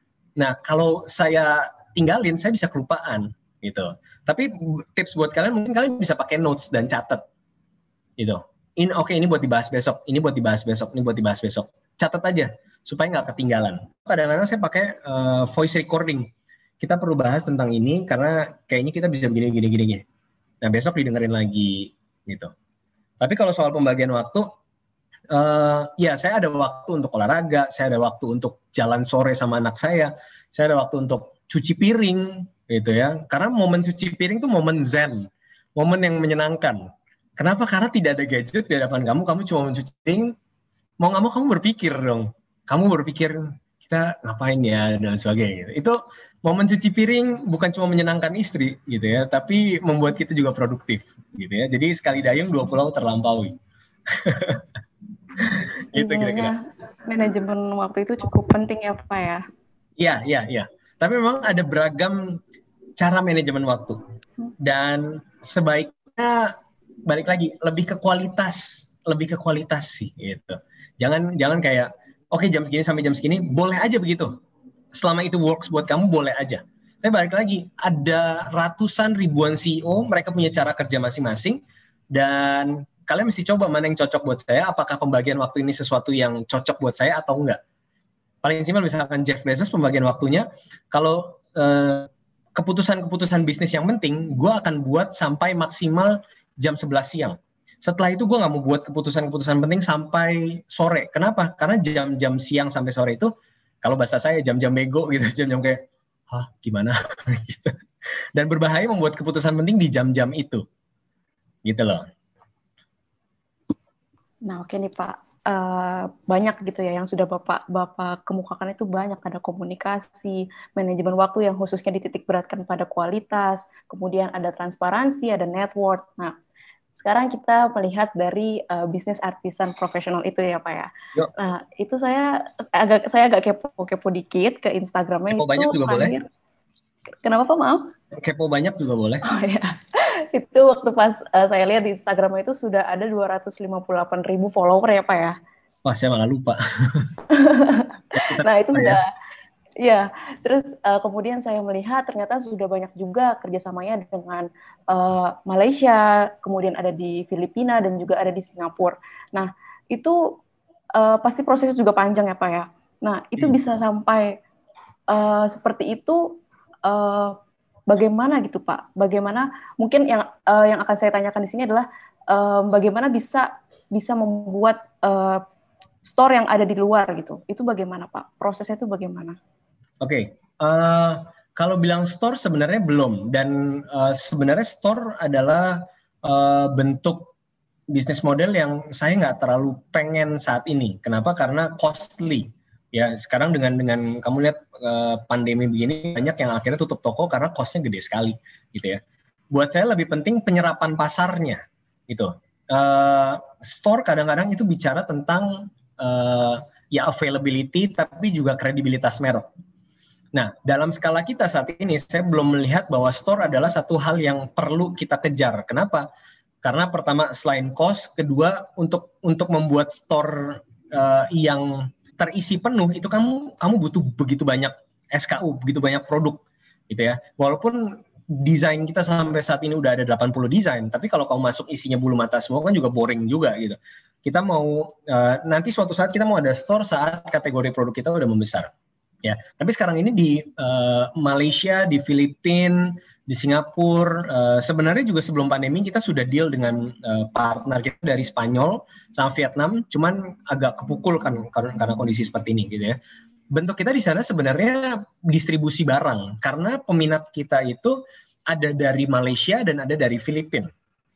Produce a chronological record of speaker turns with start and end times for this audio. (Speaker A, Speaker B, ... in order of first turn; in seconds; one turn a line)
Speaker A: 0.4-7.2
Speaker A: 8.2-20.0
Speaker A: 20.6-22.5
Speaker A: 23.2-24.5
Speaker A: 25.3-40.3
Speaker A: 41.0-53.5
Speaker A: 54.1-54.6
Speaker A: 55.4-56.5
Speaker B: 55.9-59.4
Speaker A: 60.0-62.4
Speaker A: 63.0-64.0
Speaker A: 64.6-74.3
Speaker A: 74.9-81.6
Speaker A: 82.1-87.6
Speaker A: 88.4-103.3
Speaker A: 103.8-107.7
Speaker A: 108.4-110.6
Speaker A: 111.6-112.1
Speaker B: 114.5-126.3
Speaker B: 127.0-136.2
Speaker A: 135.3-136.2
Speaker B: 137.2-137.9
Speaker A: 138.1-139.2
Speaker B: 139.2-145.3
Speaker A: 145.8-147.1
Speaker B: 147.3-149.1
Speaker A: 148.1-149.0
Speaker B: 149.8-160.2
Speaker B: 160.9-164.4
Speaker B: 165.1-167.4
Speaker B: 167.9-175.4
Speaker B: 176.0-179.4
Speaker A: 180.0-187.3
Speaker A: 187.9-209.5
Speaker A: 210.3-216.1
Speaker A: 216.6-238.7
Speaker A: 239.2-253.0
Speaker A: 253.5-260.7